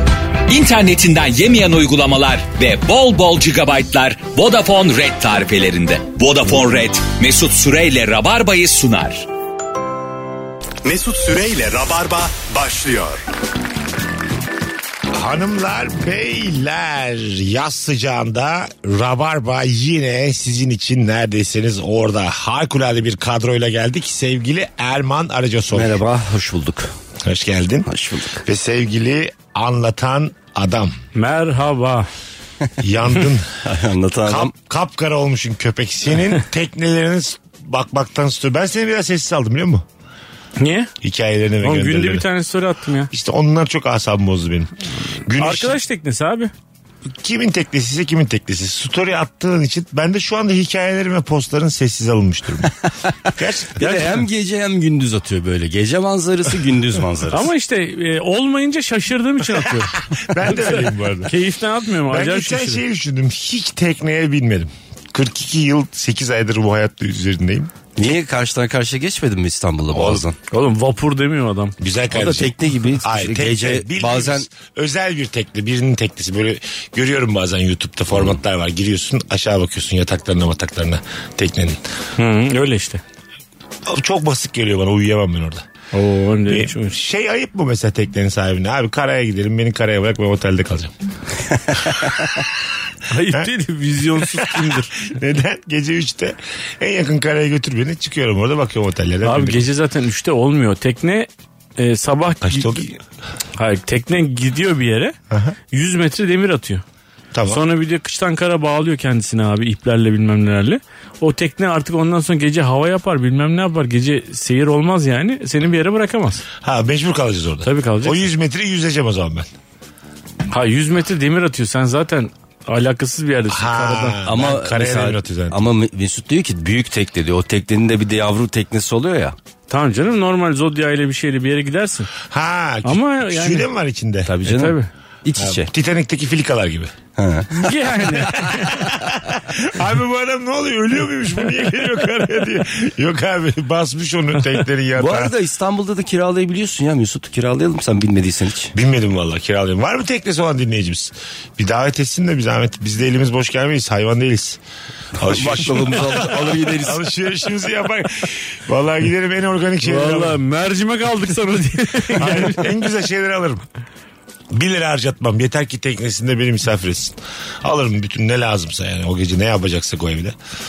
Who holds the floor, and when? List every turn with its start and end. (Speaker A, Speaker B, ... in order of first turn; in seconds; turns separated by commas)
Speaker A: 0.5-9.3, Speaker B: 10.8-13.2, Speaker C: 15.1-26.0, Speaker D: 25.7-26.9, Speaker C: 27.2-27.9, Speaker D: 27.9-28.4, Speaker C: 28.4-30.9, Speaker E: 31.1-32.1, Speaker C: 32.8-33.5, Speaker D: 33.6-34.5, Speaker C: 34.3-39.8, Speaker E: 40.6-40.9, Speaker C: 41.0-42.3, Speaker E: 41.6-43.1, Speaker C: 43.1-44.7, Speaker C: 45.3-45.8, Speaker E: 45.4-46.5, Speaker C: 47.1-52.7, Speaker C: 53.3-54.2, Speaker D: 53.8-57.5, Speaker E: 57.3-62.8, Speaker C: 59.7-61.3, Speaker C: 62.1-67.7, Speaker D: 68.0-70.4, Speaker C: 69.9-70.2, Speaker E: 70.5-71.8, Speaker C: 71.8-81.8, Speaker D: 72.1-74.5, Speaker E: 82.2-83.0, Speaker C: 83.9-85.6, Speaker E: 85.9-87.0, Speaker C: 86.5-90.9, Speaker E: 93.1-94.9, Speaker C: 94.1-99.7, Speaker E: 99.2-102.9, Speaker C: 102.4-103.0, Speaker E: 103.6-105.1, Speaker C: 105.3-105.6, Speaker E: 105.7-106.8, Speaker C: 107.3-107.6, Speaker E: 107.5-116.4, Speaker C: 116.6-119.5, Speaker E: 117.7-118.2, Speaker E: 120.5-124.2, Speaker C: 123.5-125.6, Speaker D: 124.2-129.3, Speaker E: 129.7-132.1, Speaker C: 132.2-134.3, Speaker E: 132.8-133.7, Speaker D: 134.2-135.7, Speaker E: 134.5-134.9, Speaker C: 135.4-136.9, Speaker D: 137.2-137.5, Speaker E: 137.5-138.7, Speaker C: 138.2-145.3, Speaker D: 145.0-148.7, Speaker C: 148.7-154.6, Speaker C: 155.2-160.4, Speaker D: 155.2-157.0, Speaker E: 159.8-162.7, Speaker C: 162.2-163.6, Speaker C: 164.5-170.3